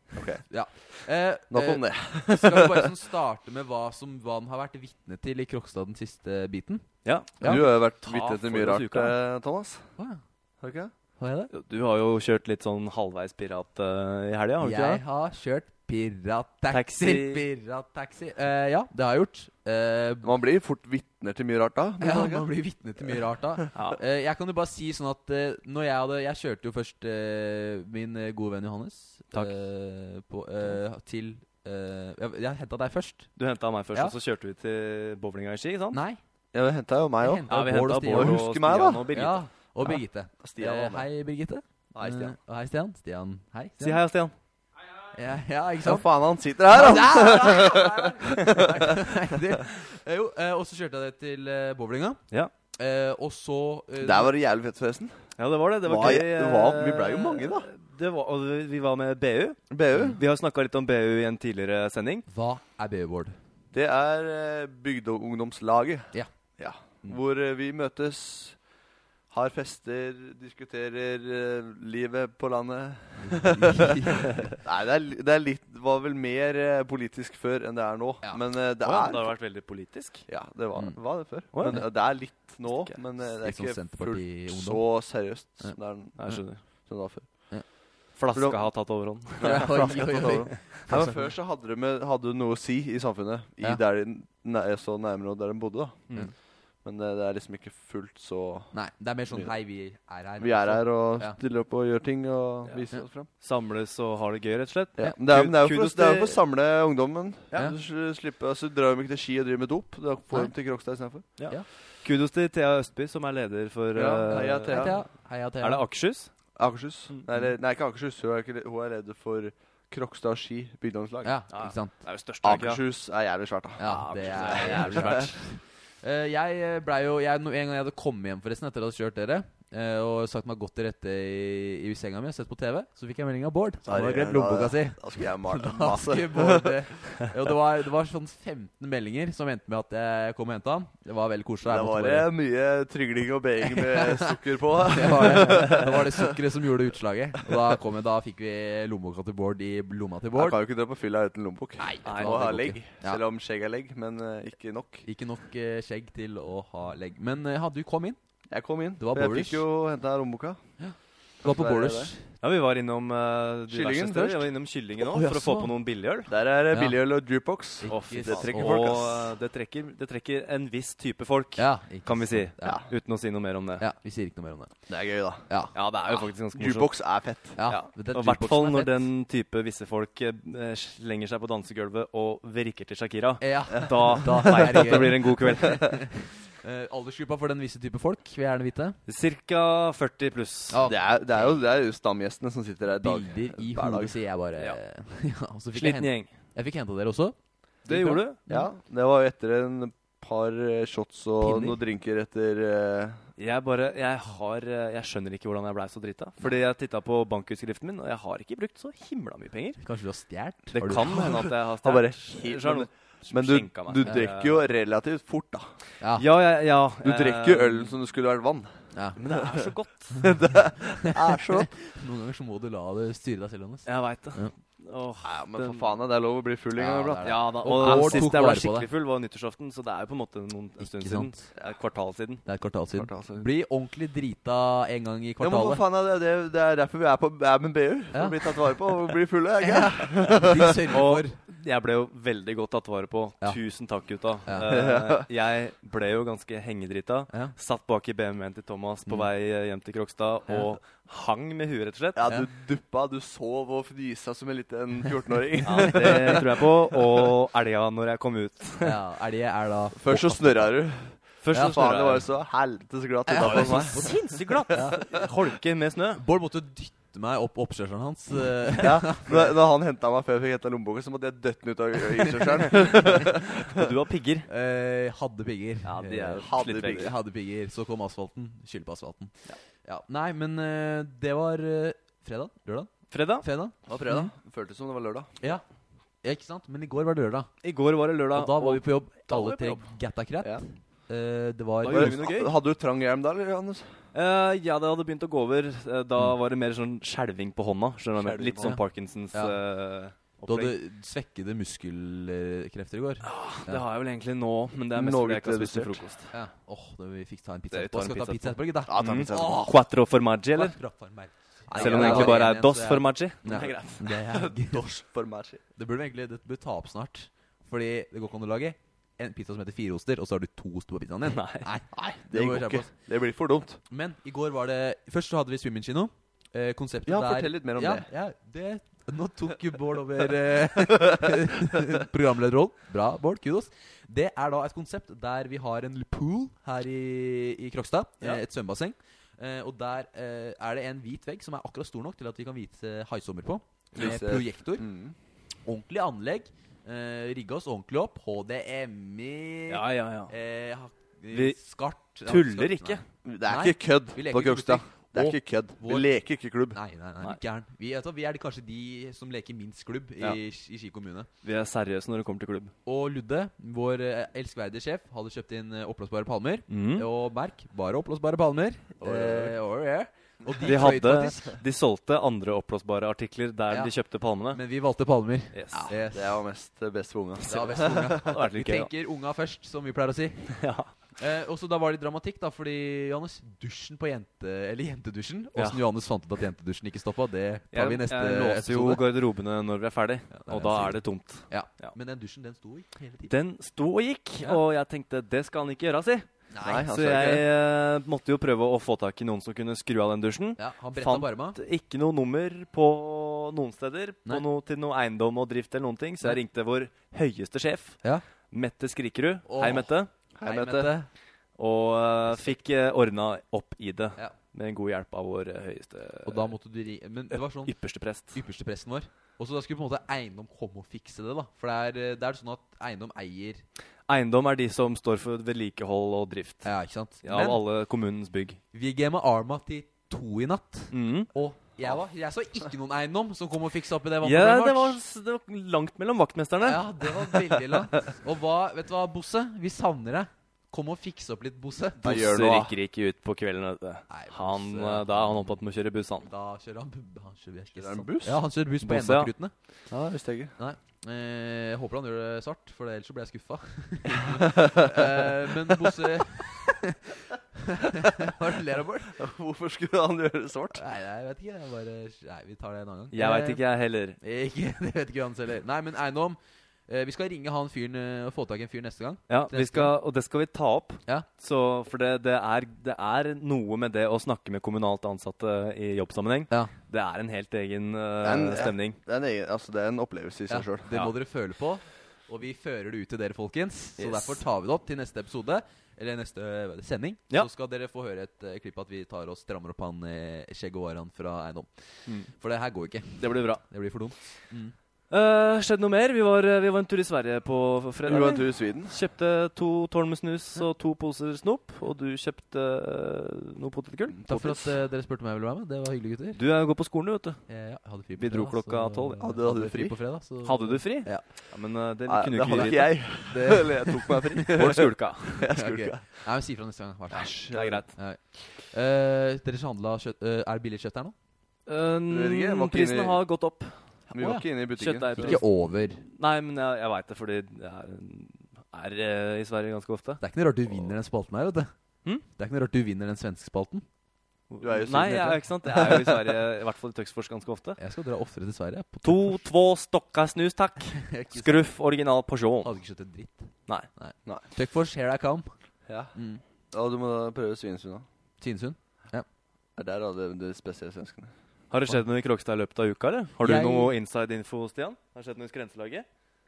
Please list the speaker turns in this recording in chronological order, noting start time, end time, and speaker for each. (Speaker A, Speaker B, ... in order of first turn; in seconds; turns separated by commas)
Speaker A: 0.1-0.4, Speaker B: 0.5-6.9, Speaker A: 1.5-2.9, Speaker C: 7.0-9.2, Speaker B: 7.4-7.7, Speaker A: 7.4-9.9, Speaker A: 10.6-10.9, Speaker B: 11.2-11.5, Speaker C: 11.5-15.0, Speaker B: 14.6-20.3, Speaker C: 16.7-17.4, Speaker A: 20.2-22.5, Speaker B: 22.0-33.3, Speaker C: 23.8-24.0, Speaker C: 33.4-36.0, Speaker B: 35.9-36.2, Speaker A: 36.5-37.5, Speaker B: 37.2-38.5, Speaker C: 37.5-39.5, Speaker A: 38.0-39.1, Speaker B: 39.1-44.0, Speaker A: 40.4-41.1, Speaker A: 41.9-42.4, Speaker C: 43.8-44.3, Speaker B: 45.1-52.2, Speaker A: 45.8-49.4, Speaker B: 52.8-54.4, Speaker A: 54.0-55.1, Speaker C: 55.4-62.3, Speaker A: 55.8-57.7, Speaker A: 59.7-60.2, Speaker B: 62.3-63.4, Speaker A: 63.7-68.6, Speaker A: 69.3-79.4, Speaker B: 73.2-74.4, Speaker C: 78.8-80.3, Speaker A: 80.3-86.3, Speaker B: 80.8-81.9, Speaker C: 81.5-83.0, Speaker B: 83.2-85.8, Speaker C: 86.2-86.6, Speaker A: 86.9-87.3, Speaker C: 88.2-90.6, Speaker A: 88.3-88.7, Speaker A: 89.4-96.1, Speaker B: 89.4-91.3, Speaker A: 96.8-98.8, Speaker B: 98.7-101.4, Speaker A: 99.3-99.5, Speaker A: 100.4-103.3, Speaker C: 103.4-106.4, Speaker A: 105.0-111.3, Speaker C: 111.4-115.1, Speaker A: 113.9-115.0, Speaker B: 114.6-115.8, Speaker C: 115.6-116.3, Speaker A: 116.6-121.3, Speaker B: 121.2-122.0, Speaker C: 121.5-122.8, Speaker A: 122.4-125.3, Speaker B: 123.8-142.3, Speaker C: 123.8-125.3, Speaker A: 133.8-136.9, Speaker A: 141.6-146.3, Speaker B: 143.7-144.3, Speaker B: 144.8-150.6, Speaker A: 150.3-155.1, Speaker B: 151.8-153.2, Speaker C: 152.1-152.7, Speaker B: 155.1-158.2, Speaker A: 158.5-160.6, Speaker B: 159.0-159.7, Speaker B: 160.8-162.3, Speaker A: 161.4-162.1, Speaker C: 162.4-166.3, Speaker A: 163.7-164.5, Speaker B: 165.0-165.7, Speaker A: 166.3-169.3, Speaker B: 166.7-167.0, Speaker B: 167.8-168.8, Speaker C: 167.9-173.9, Speaker B: 171.6-172.8, Speaker B: 173.8-174.7, Speaker A: 174.9-175.5, Speaker B: 175.5-175.7, Speaker C: 175.7-176.9, Speaker A: 176.5-177.6, Speaker B: 177.6-179.1, Speaker C: 177.7-186.0, Speaker B: 183.4-186.1, Speaker B: 186.6-189.0, Speaker C: 189.1-190.8, Speaker B: 190.7-191.6, Speaker A: 190.8-194.2, Speaker B: 192.9-198.7, Speaker C: 195.7-196.3, Speaker C: 197.9-198.4, Speaker A: 198.5-203.2, Speaker B: 201.4-201.8, Speaker C: 203.4-209.8, Speaker B: 209.8-211.3, Speaker C: 210.7-214.6, Speaker A: 211.1-215.7, Speaker C: 216.2-217.9, Speaker A: 217.0-218.7, Speaker B: 218.9-219.2, Speaker C: 219.2-220.2, Speaker A: 219.3-221.7, Speaker B: 221.0-224.5, Speaker C: 223.9-226.0, Speaker A: 225.2-228.3, Speaker B: 226.8-228.9, Speaker C: 227.2-232.4, Speaker B: 230.8-231.4, Speaker B: 232.5-235.8, Speaker A: 232.9-233.5, Speaker A: 235.4-241.0, Speaker B: 238.1-238.7, Speaker B: 239.6-241.4, Speaker C: 240.9-252.2, Speaker B: 244.5-244.8, Speaker A: 244.7-245.3, Speaker A: 252.2-256.6, Speaker C: 255.6-259.0, Speaker B: 255.8-256.3, Speaker B: 258.8-260.7, Speaker A: 259.9-264.3, Speaker C: 261.4-262.3, Speaker B: 261.5-261.8, Speaker B: 263.3-265.1, Speaker C: 263.4-266.2, Speaker B: 266.2-269.4, Speaker A: 268.8-273.9, Speaker C: 273.7-274.5, Speaker B: 274.5-284.3, Speaker C: 275.9-277.1, Speaker A: 276.3-277.1, Speaker C: 283.1-283.5, Speaker A: 283.9-285.3, Speaker B: 286.2-287.5, Speaker C: 287.6-289.9, Speaker B: 288.3-292.2, Speaker C: 291.8-292.5, Speaker A: 291.9-293.9, Speaker C: 294.1-300.8, Speaker A: 298.2-298.8, Speaker B: 300.5-303.8, Speaker C: 303.2-306.2, Speaker A: 304.9-306.1, Speaker B: 306.3-309.8, Speaker C: 307.7-310.8, Speaker A: 308.9-309.6, Speaker B: 310.5-314.9, Speaker A: 311.7-312.5, Speaker C: 311.8-314.1, Speaker A: 313.5-315.6, Speaker B: 315.8-322.9, Speaker C: 321.3-321.7, Speaker A: 321.9-323.8, Speaker B: 323.9-344.9, Speaker A: 327.1-328.1, Speaker A: 343.9-345.1, Speaker B: 345.7-356.2, Speaker C: 349.7-350.3, Speaker C: 351.3-353.0, Speaker A: 353.2-356.8, Speaker B: 356.7-361.3, Speaker C: 361.4-362.7, Speaker B: 362.9-371.6, Speaker C: 366.7-367.1, Speaker A: 369.0-369.6, Speaker C: 370.6-374.6, Speaker B: 374.5-376.4, Speaker C: 375.5-375.9, Speaker A: 376.1-378.3, Speaker B: 377.5-380.7, Speaker C: 378.1-378.9, Speaker C: 380.6-380.9, Speaker B: 381.2-389.0, Speaker C: 385.6-385.8, Speaker C: 387.7-391.9, Speaker B: 390.3-393.3, Speaker C: 393.3-396.3, Speaker B: 396.5-396.9, Speaker A: 396.6-397.5, Speaker C: 396.8-410.1, Speaker B: 400.6-401.6, Speaker B: 409.5-411.1, Speaker A: 410.4-410.9, Speaker C: 411.6-416.5, Speaker B: 412.3-412.6, Speaker B: 416.2-417.7, Speaker C: 417.4-418.4, Speaker B: 418.3-423.6, Speaker C: 424.1-428.6, Speaker B: 426.6-427.6, Speaker B: 428.7-435.0, Speaker C: 430.9-431.3, Speaker C: 434.2-437.1, Speaker B: 436.6-442.3, Speaker A: 442.0-442.7, Speaker C: 442.0-446.3, Speaker B: 444.1-445.6, Speaker B: 446.2-449.5, Speaker A: 447.8-448.4, Speaker C: 448.8-449.3, Speaker A: 449.9-450.6, Speaker B: 450.6-459.2, Speaker A: 454.3-455.1, Speaker A: 459.1-460.8, Speaker B: 460.8-463.6, Speaker C: 463.1-464.2, Speaker B: 464.2-469.9, Speaker C: 469.3-479.0, Speaker A: 478.2-480.9, Speaker B: 480.5-494.7, Speaker C: 484.0-484.4, Speaker C: 493.2-493.6, Speaker C: 495.1-504.7, Speaker A: 498.1-498.9, Speaker B: 504.2-506.4, Speaker C: 506.4-507.5, Speaker B: 507.5-511.2, Speaker C: 508.2-509.3, Speaker A: 509.2-510.0, Speaker C: 510.4-513.0, Speaker A: 512.1-516.0, Speaker B: 512.5-514.6, Speaker C: 514.5-515.4, Speaker B: 515.4-517.4, Speaker A: 517.1-517.8, Speaker C: 517.2-517.9, Speaker B: 518.0-521.1, Speaker C: 521.7-523.8, Speaker A: 522.1-523.2, Speaker A: 524.1-525.4, Speaker B: 524.2-524.5, Speaker C: 524.8-525.6, Speaker B: 525.2-526.0, Speaker C: 526.2-530.9, Speaker B: 530.2-531.7, Speaker B: 532.3-533.9, Speaker C: 534.5-537.8, Speaker A: 534.6-536.3, Speaker B: 537.8-539.4, Speaker C: 539.0-542.7, Speaker B: 541.0-541.7, Speaker B: 542.6-545.5, Speaker A: 545.9-546.1, Speaker B: 546.1-546.4, Speaker A: 546.7-548.1, Speaker B: 548.4-549.3, Speaker A: 549.8-551.3, Speaker C: 551.7-556.1, Speaker B: 553.4-553.9